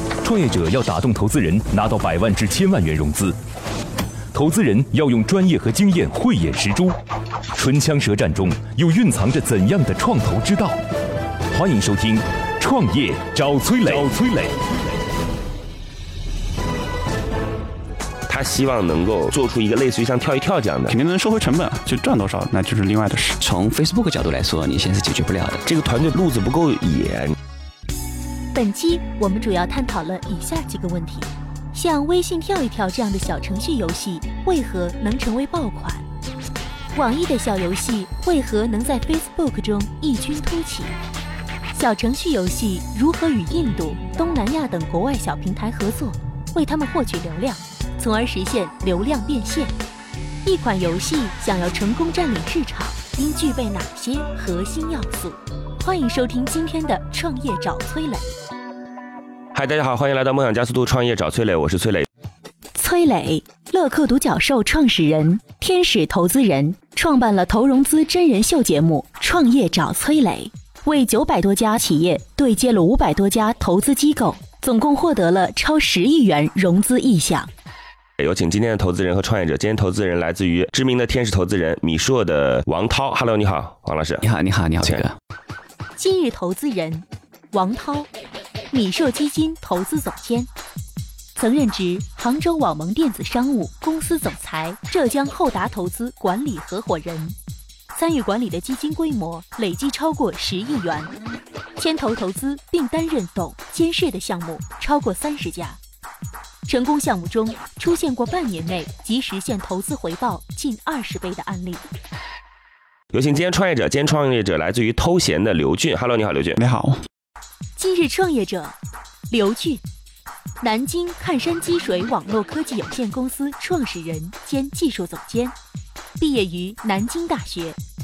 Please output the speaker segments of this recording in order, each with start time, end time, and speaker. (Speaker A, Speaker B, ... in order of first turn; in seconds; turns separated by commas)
Speaker A: 0.2-3.4, Speaker A: 4.3-7.0, Speaker A: 7.5-10.8, Speaker A: 11.5-14.6, Speaker B: 18.3-20.9, Speaker C: 20.9-23.4, Speaker D: 23.4-25.7, Speaker B: 25.7-27.4, Speaker E: 28.5-36.0, Speaker E: 36.9-41.0, Speaker E: 41.7-49.7, Speaker E: 50.5-58.3, Speaker B: 59.5-62.1, Speaker E: 62.8-77.5, Speaker B: 78.2-84.2, Speaker D: 84.2-85.1, Speaker E: 86.0-88.1, Speaker E: 88.7-90.5, Speaker E: 91.4-97.4, Speaker E: 97.9-101.1, Speaker E: 101.8-105.8, Speaker E: 106.7-111.8, Speaker B: 113.1-116.6, Speaker C: 116.6-117.0, Speaker E: 117.8-118.8, Speaker E: 119.3-119.8, Speaker E: 120.6-125.5, Speaker E: 126.2-127.8